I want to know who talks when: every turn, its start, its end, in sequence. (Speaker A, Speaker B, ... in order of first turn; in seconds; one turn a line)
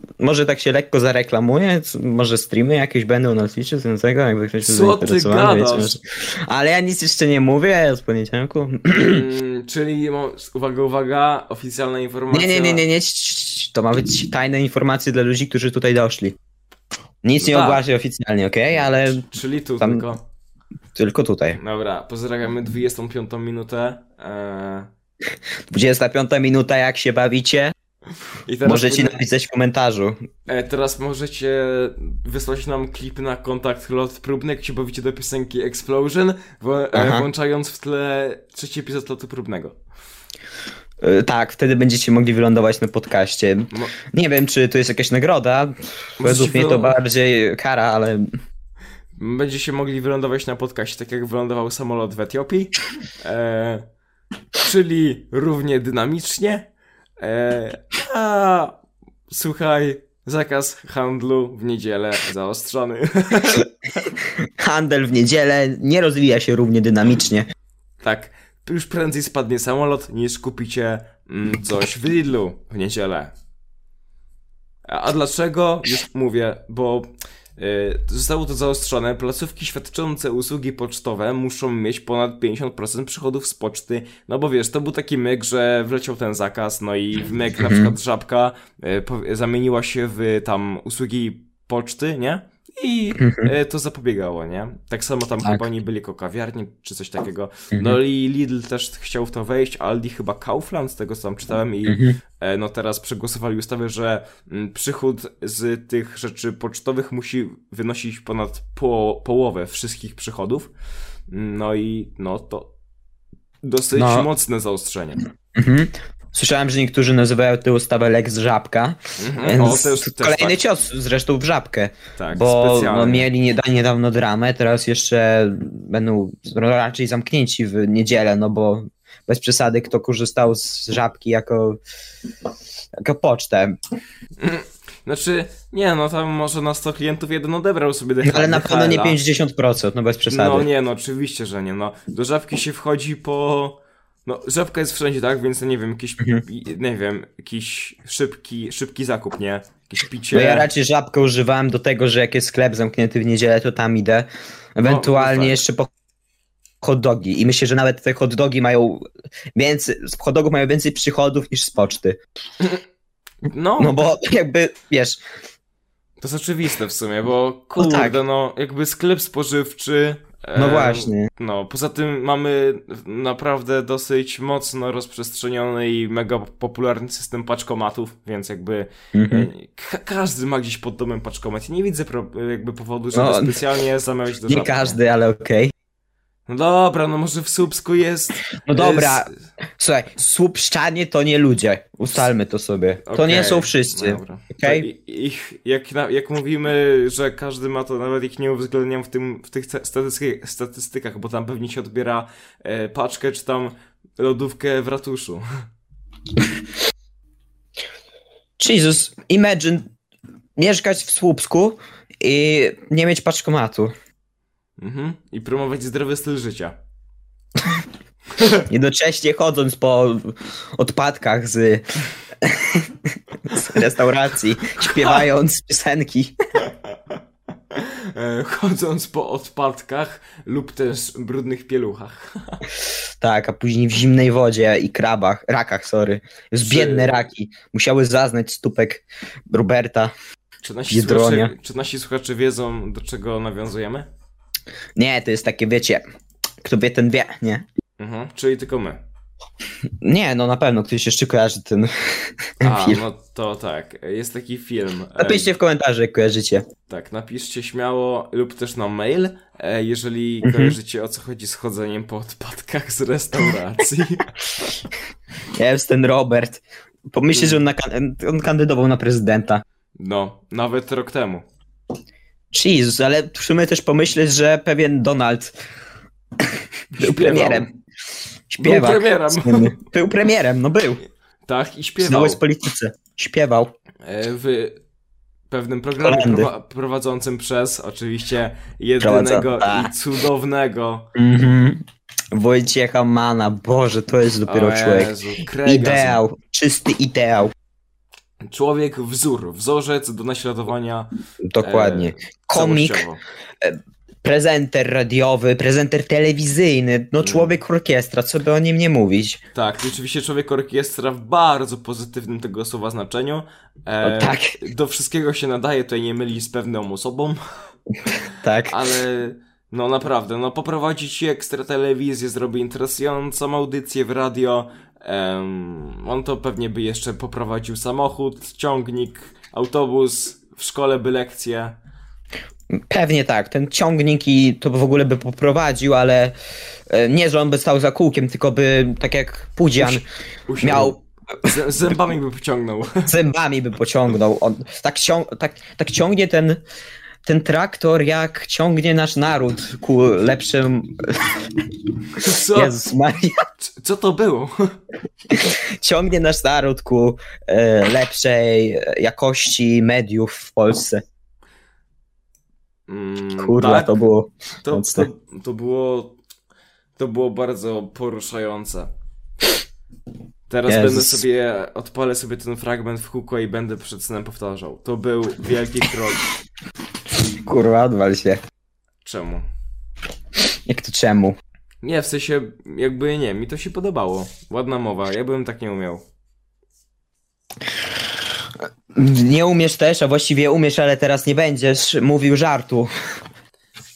Speaker A: 0.2-9.2
Speaker B: 4.6-6.0
Speaker B: 9.0-12.8
Speaker A: 12.3-16.4
Speaker A: 17.2-19.2
Speaker B: 17.4-17.8
Speaker B: 18.7-20.2
Speaker A: 20.9-21.6
Speaker B: 21.6-24.9
Speaker A: 25.7-27.7
Speaker B: 28.5-29.2
Speaker A: 28.6-30.2
Speaker B: 30.5-39.8
Speaker A: 36.9-37.3
Speaker A: 41.0-48.3
Speaker B: 46.2-47.0
Speaker B: 49.1-53.8
Speaker B: 54.5-58.8
Speaker B: 59.3-63.7
Speaker A: 64.6-67.5
Speaker B: 68.0-73.3
Speaker B: 74.8-110.7
Speaker A: 87.6-87.9
Speaker A: 93.2-93.5
Speaker A: 97.7-98.0
Speaker A: 101.8-102.2
Speaker B: 111.3-112.7
Speaker B: 113.6-115.2
Speaker A: 113.9-114.3
Speaker A: 115.5-131.8
Speaker B: 119.2-120.6
Speaker B: 122.2-123.3
Speaker A: 133.0-133.8
Speaker B: 134.4-139.2
Speaker A: 138.2-140.7
Speaker B: 140.3-150.7
Speaker A: 150.3-155.9
Speaker B: 154.8-155.6
Speaker A: 156.8-159.0
Speaker A: 159.5-162.2
Speaker B: 163.4-164.0
Speaker A: 163.8-165.2
Speaker B: 166.2-185.0
Speaker A: 167.8-168.2
Speaker A: 170.6-171.3
Speaker A: 179.1-179.5
Speaker A: 183.1-183.6
Speaker A: 184.5-185.7
Speaker B: 186.5-189.3
Speaker A: 188.6-194.9
Speaker B: 193.1-205.4
Speaker A: 208.6-209.9
Speaker A: 210.6-213.9
Speaker B: 214.8-216.8
Speaker A: 218.6-221.8
Speaker A: 222.4-226.3
Speaker B: 224.8-225.3
Speaker B: 226.6-227.0
Speaker B: 227.7-232.6
Speaker A: 233.2-240.1
Speaker B: 236.6-237.2
Speaker B: 240.6-244.1
Speaker A: 240.9-241.5
Speaker A: 245.0-246.0
Speaker A: 246.6-247.6
Speaker B: 248.0-249.0
Speaker A: 250.0-253.0
Speaker B: 252.6-255.5
Speaker A: 255.2-256.6
Speaker B: 256.9-264.3
Speaker A: 260.4-260.8
Speaker A: 265.6-269.6
Speaker B: 267.3-267.6
Speaker B: 269.9-271.4
Speaker A: 272.5-275.5
Speaker A: 276.5-277.7
Speaker B: 276.9-277.7
Speaker A: 278.5-281.0
Speaker B: 278.6-279.7
Speaker B: 281.4-282.4
Speaker A: 282.0-283.7
Speaker B: 284.0-284.8
Speaker B: 285.5-291.1
Speaker A: 286.0-286.5
Speaker A: 289.0-289.9
Speaker A: 291.1-295.1
Speaker B: 294.4-296.2
Speaker A: 295.6-297.5
Speaker B: 298.4-301.1
Speaker A: 301.4-303.0
Speaker B: 301.6-303.2
Speaker A: 303.6-309.4
Speaker B: 307.2-307.6
Speaker B: 309.5-317.4
Speaker A: 314.0-314.6
Speaker A: 318.4-318.8
Speaker B: 318.7-331.8
Speaker A: 332.7-336.3
Speaker A: 336.9-340.0
Speaker B: 339.8-343.1
Speaker A: 340.6-341.5
Speaker A: 343.1-346.6
Speaker A: 347.2-351.4
Speaker B: 352.2-352.7
Speaker A: 352.5-353.3
Speaker B: 353.6-354.7
Speaker A: 355.3-361.0
Speaker B: 362.9-364.1
Speaker A: 363.4-365.1
Speaker B: 364.6-366.2
Speaker B: 366.9-368.9
Speaker B: 370.5-376.2
Speaker A: 370.7-371.2
Speaker A: 377.4-378.4
Speaker B: 379.0-379.4
Speaker A: 380.7-381.4
Speaker B: 381.8-386.0
Speaker A: 388.9-392.9